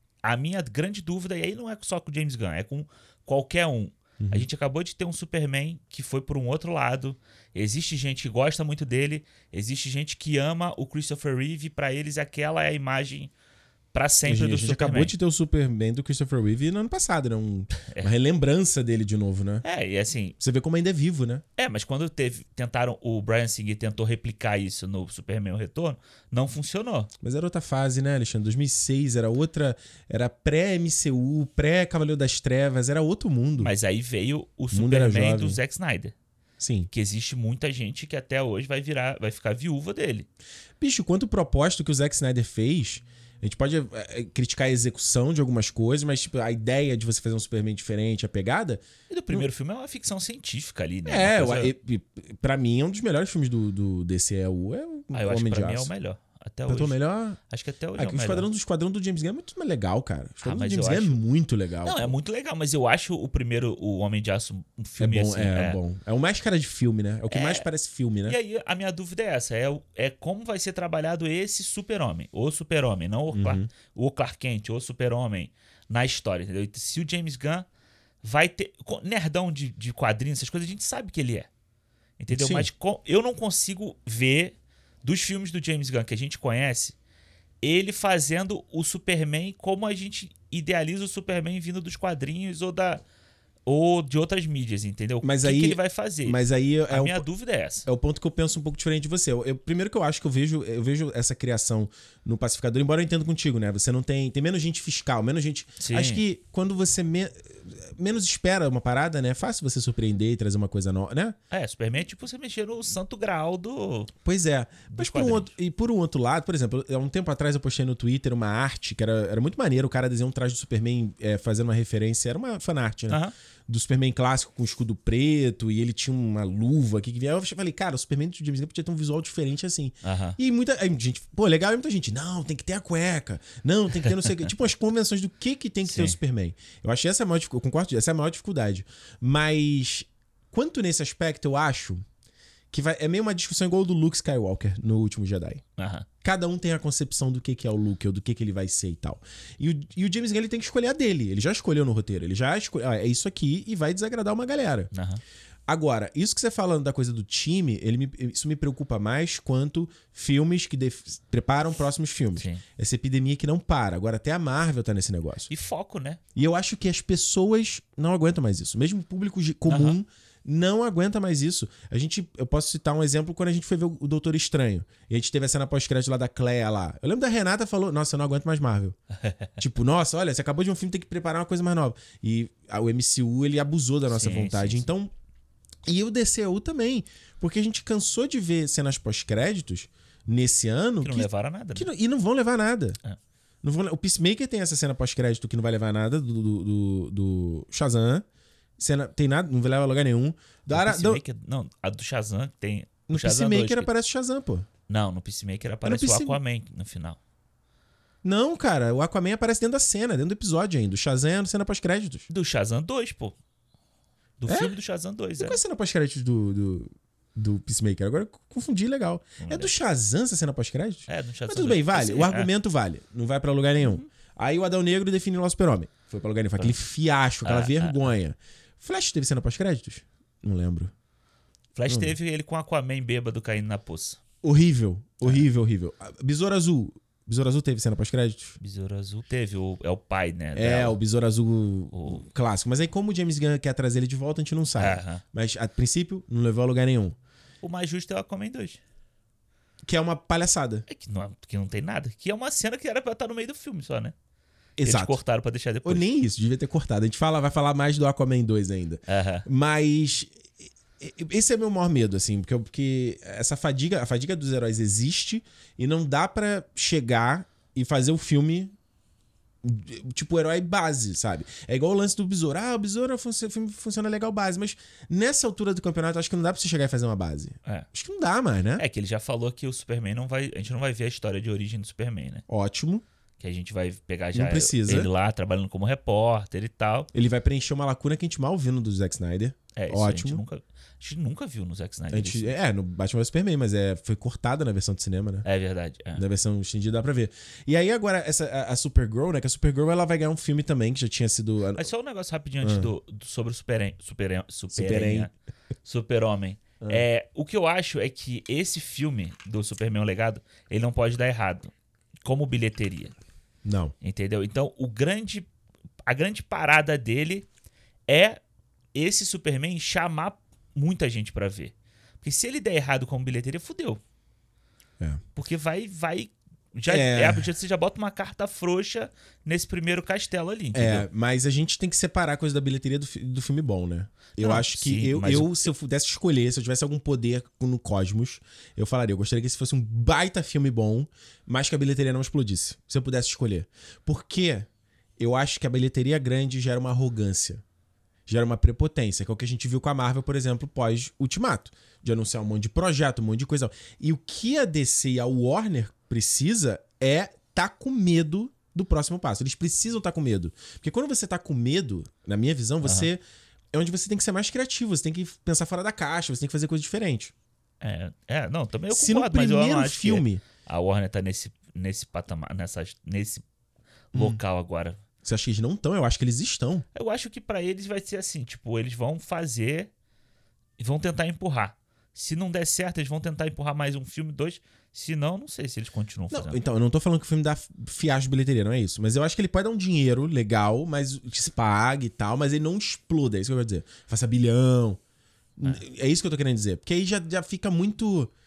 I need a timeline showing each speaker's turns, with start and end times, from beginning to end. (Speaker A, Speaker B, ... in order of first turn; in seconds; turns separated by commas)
Speaker A: 0.2-13.3, Speaker B: 4.2-4.5, Speaker A: 13.9-15.1, Speaker B: 14.2-19.6, Speaker A: 17.9-18.1, Speaker A: 19.6-20.4, Speaker B: 20.4-21.4, Speaker A: 21.6-27.1, Speaker B: 27.2-33.7, Speaker A: 33.6-36.1, Speaker B: 34.7-35.6, Speaker B: 36.6-36.9, Speaker A: 36.9-40.3, Speaker B: 40.8-49.5, Speaker A: 49.1-51.7, Speaker B: 51.0-55.9, Speaker A: 55.1-58.5, Speaker B: 56.7-57.4, Speaker B: 58.0-62.1, Speaker A: 60.4-61.2, Speaker A: 61.8-65.8, Speaker B: 65.0-68.4, Speaker A: 67.3-67.7, Speaker A: 68.3-77.7, Speaker B: 73.3-73.7, Speaker A: 78.2-81.5, Speaker A: 82.2-87.0, Speaker B: 82.3-82.7, Speaker A: 87.6-93.0, Speaker A: 93.7-97.9, Speaker B: 95.2-97.2, Speaker B: 97.8-111.3, Speaker A: 105.8-106.2, Speaker A: 111.5-114.1, Speaker B: 114.2-142.0, Speaker A: 114.9-115.5, Speaker A: 123.1-123.3, Speaker A: 130.0-130.4, Speaker A: 134.0-134.4, Speaker A: 135.8-136.2, Speaker B: 142.7-145.6, Speaker A: 145.8-146.1, Speaker B: 146.2-154.9, Speaker A: 154.9-155.2, Speaker B: 155.7-165.5, Speaker A: 162.3-162.6, Speaker A: 165.5-166.2, Speaker B: 166.3-178.9, Speaker A: 169.7-170.0, Speaker B: 179.6-185.1, Speaker A: 184.1-184.9, Speaker B: 185.8-193.0, Speaker A: 191.0-191.9, Speaker B: 193.6-198.2, Speaker B: 198.8-201.2, Speaker A: 200.7-203.9, Speaker B: 203.1-204.7, Speaker A: 204.9-207.2, Speaker B: 205.8-206.4, Speaker B: 208.2-212.3, Speaker A: 212.3-213.3, Speaker A: 214.4-215.6, Speaker B: 214.4-214.7, Speaker B: 215.4-230.9, Speaker A: 219.4-219.7, Speaker A: 221.1-222.5, Speaker A: 223.8-224.1, Speaker A: 227.4-228.1, Speaker A: 231.7-234.2, Speaker B: 231.9-232.1, Speaker B: 234.4-238.6, Speaker A: 238.6-241.0, Speaker B: 240.5-247.2, Speaker A: 241.9-242.2, Speaker A: 244.8-245.2, Speaker A: 247.6-248.8, Speaker B: 249.8-250.8, Speaker A: 250.9-254.1, Speaker B: 254.8-255.2, Speaker A: 254.8-256.0, Speaker B: 255.8-260.4, Speaker A: 259.1-259.4, Speaker B: 261.0-268.7, Speaker B: 269.6-278.8, Speaker A: 278.8-282.4, Speaker B: 282.5-283.0, Speaker A: 283.4-287.1, Speaker B: 284.3-285.1, Speaker B: 287.1-290.4, Speaker A: 289.7-292.5, Speaker B: 292.1-295.4, Speaker A: 295.4-296.2, Speaker B: 296.1-301.9, Speaker A: 301.8-305.3, Speaker B: 302.6-302.9, Speaker B: 304.7-305.3, Speaker A: 305.8-311.7, Speaker A: 312.2-313.1, Speaker B: 313.6-313.9, Speaker A: 314.0-315.5, Speaker A: 316.1-317.5, Speaker A: 318.1-318.4, Speaker A: 318.9-324.0, Speaker A: 325.3-331.1, Speaker B: 326.9-327.4, Speaker B: 330.7-347.6, Speaker A: 334.4-335.7, Speaker B: 348.3-363.2, Speaker A: 362.8-363.1, Speaker B: 363.7-367.3, Speaker A: 367.8-373.4, Speaker B: 368.9-370.4, Speaker B: 374.1-374.4, Speaker A: 374.1-375.0, Speaker B: 375.2-376.9, Speaker A: 376.9-379.9, Speaker A: 380.8-386.6, Speaker B: 386.3-395.0, Speaker B: 395.6-398.3